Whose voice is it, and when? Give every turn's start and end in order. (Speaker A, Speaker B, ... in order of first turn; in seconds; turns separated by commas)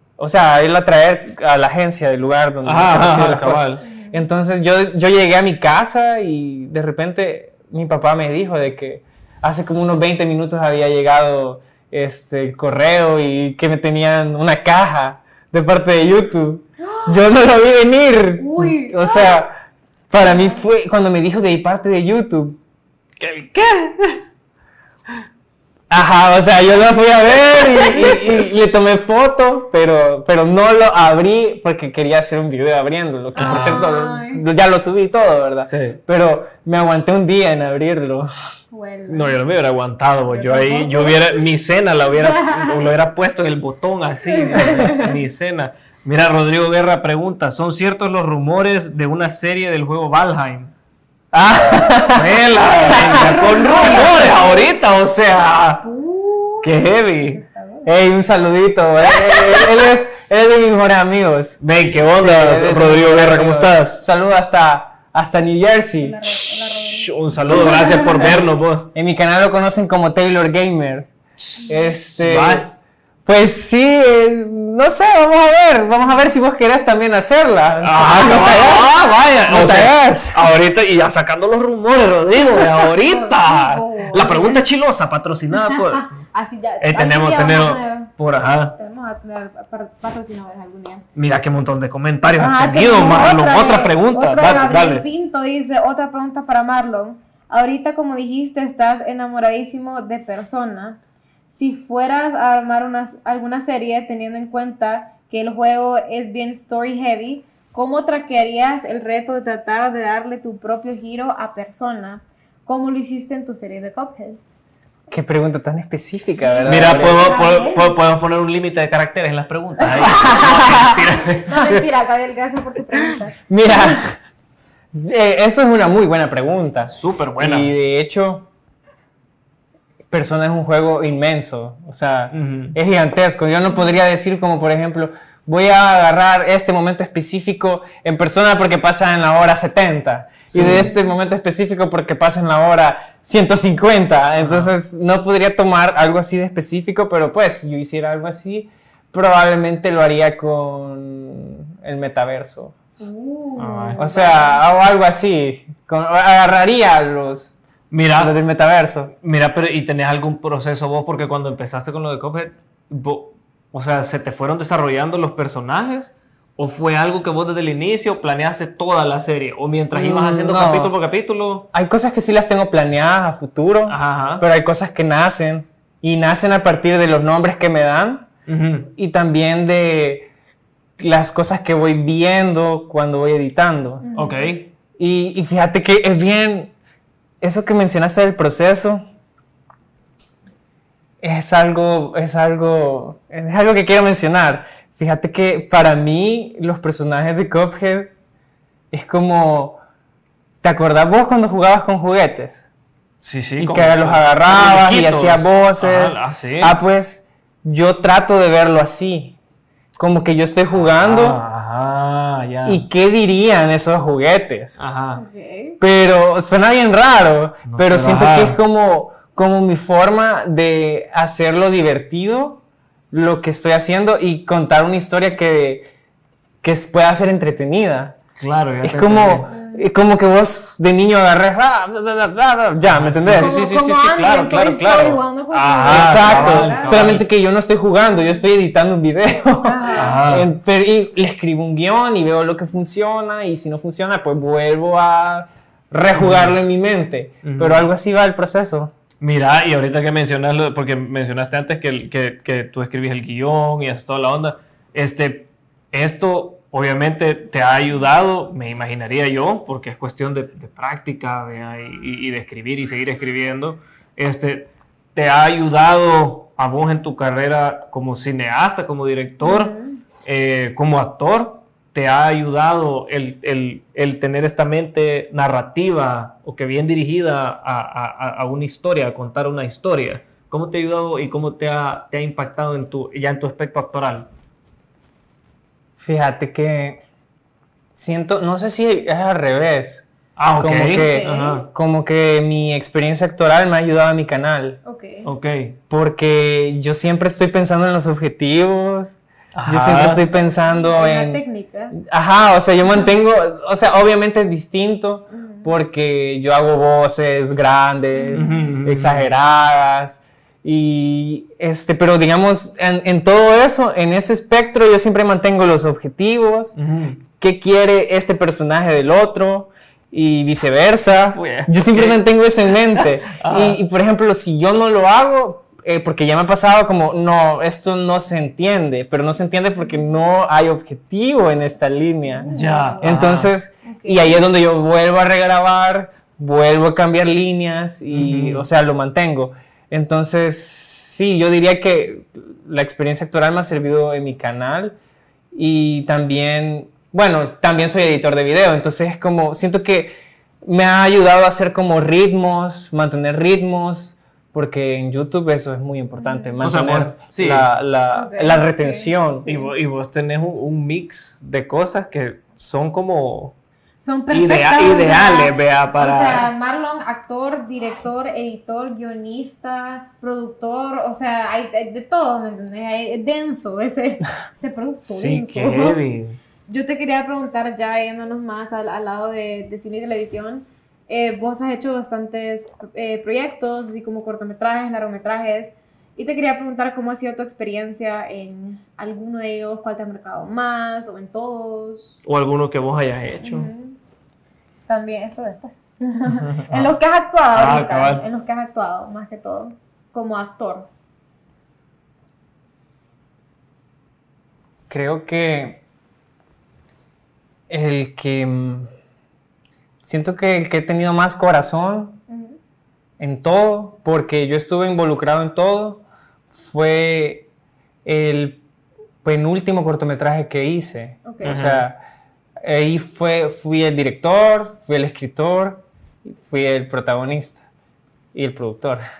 Speaker A: 0.2-19.5, Speaker B: 2.6-3.8, Speaker C: 3.8-4.3, Speaker C: 16.8-17.2, Speaker C: 18.4-19.4, Speaker A: 20.1-22.6, Speaker C: 20.2-20.6, Speaker B: 23.2-24.2, Speaker A: 25.9-38.3, Speaker B: 27.8-28.2, Speaker C: 33.3-34.4, Speaker B: 33.4-33.8, Speaker B: 35.7-36.0, Speaker C: 38.7-39.4, Speaker B: 39.1-50.7, Speaker C: 40.3-41.4, Speaker C: 42.1-42.8, Speaker C: 44.3-45.1, Speaker A: 51.3-54.3, Speaker B: 52.1-55.8, Speaker C: 52.6-54.7, Speaker C: 55.8-58.0, Speaker B: 56.6-57.4, Speaker A: 57.9-61.6, Speaker B: 61.6-64.0, Speaker A: 62.2-66.4, Speaker C: 66.0-68.3, Speaker B: 66.9-68.9, Speaker A: 67.6-68.4, Speaker A: 68.9-71.1, Speaker B: 71.4-72.7, Speaker A: 71.7-72.7, Speaker A: 73.2-78.9, Speaker B: 77.8-86.1, Speaker A: 79.5-80.5, Speaker C: 82.4-84.6, Speaker C: 85.5-88.1, Speaker B: 86.8-88.8, Speaker C: 88.7-91.0, Speaker B: 91.1-95.0, Speaker C: 92.4-101.0, Speaker C: 101.5-114.4, Speaker A: 115.1-117.4, Speaker C: 116.4-118.0, Speaker B: 116.7-121.8, Speaker C: 119.8-124.0, Speaker A: 120.0-121.0, Speaker A: 123.5-124.1, Speaker A: 124.9-128.5, Speaker B: 126.9-127.7, Speaker A: 130.1-152.8, Speaker B: 132.3-132.8, Speaker B: 140.5-140.9, Speaker C: 140.6-141.1, Speaker B: 144.4-144.7, Speaker C: 153.0-154.6, Speaker B: 153.6-154.1, Speaker A: 154.0-157.6, Speaker B: 157.9-158.3, Speaker A: 158.1-159.1, Speaker B: 159.2-171.7, Speaker A: 169.9-170.9, Speaker A: 171.7-178.3, Speaker B: 173.9-174.4, Speaker B: 178.5-178.9, Speaker A: 178.9-180.3, Speaker A: 181.0-184.0, Speaker C: 184.0-184.6, Speaker B: 184.1-184.7, Speaker A: 185.0-186.7, Speaker A: 187.4-189.0, Speaker A: 191.2-198.1, Speaker A: 198.9-199.8, Speaker A: 200.6-202.7, Speaker B: 203.2-206.8, Speaker A: 203.6-209.3, Speaker A: 210.0-211.4, Speaker B: 210.8-212.8, Speaker A: 212.6-214.8, Speaker B: 214.8-215.2, Speaker C: 215.2-215.8, Speaker A: 215.8-222.6, Speaker B: 217.7-218.6, Speaker A: 223.1-225.9, Speaker A: 226.6-228.2, Speaker B: 228.4-229.5, Speaker A: 228.8-233.6, Speaker C: 229.5-229.9, Speaker B: 232.9-237.2, Speaker C: 233.2-237.2, Speaker A: 235.9-248.9, Speaker C: 238.1-238.4, Speaker C: 239.6-240.2, Speaker B: 239.9-240.5, Speaker B: 246.1-246.6, Speaker B: 247.4-247.9, Speaker B: 249.2-284.3, Speaker C: 269.4-270.0, Speaker A: 286.0-287.0, Speaker A: 288.0-290.1, Speaker B: 290.4-291.7, Speaker A: 290.6-294.8, Speaker C: 291.0-291.6, Speaker C: 294.8-295.3, Speaker B: 295.2-295.8, Speaker A: 295.9-301.4, Speaker B: 299.5-300.2, Speaker C: 300.5-301.9, Speaker A: 301.9-316.7, Speaker C: 305.3-305.7, Speaker C: 308.1-308.7, Speaker B: 308.3-309.3, Speaker B: 316.8-317.2, Speaker A: 317.4-344.9, Speaker B: 321.3-323.8, Speaker C: 332.3-333.1, Speaker B: 332.5-333.5, Speaker C: 333.8-334.4, Speaker B: 338.1-338.7, Speaker A: 345.5-359.5, Speaker C: 356.2-356.5, Speaker B: 356.6-357.7, Speaker C: 358.1-359.7, Speaker B: 359.4-363.6, Speaker C: 364.0-376.0, Speaker B: 364.3-366.5, Speaker B: 375.0-376.4, Speaker C: 376.7-392.2, Speaker B: 392.2-393.7, Speaker C: 393.4-394.0, Speaker C: 394.9-400.9, Speaker B: 396.3-396.9, Speaker B: 397.5-398.2, Speaker A: 404.9-405.8, Speaker A: 407.7-408.9, Speaker A: 410.0-412.2, Speaker C: 412.3-412.6, Speaker A: 413.2-417.5, Speaker A: 418.0-418.6, Speaker A: 419.2-422.0, Speaker C: 421.2-421.6, Speaker B: 421.4-421.9, Speaker A: 422.6-427.6, Speaker A: 428.3-429.0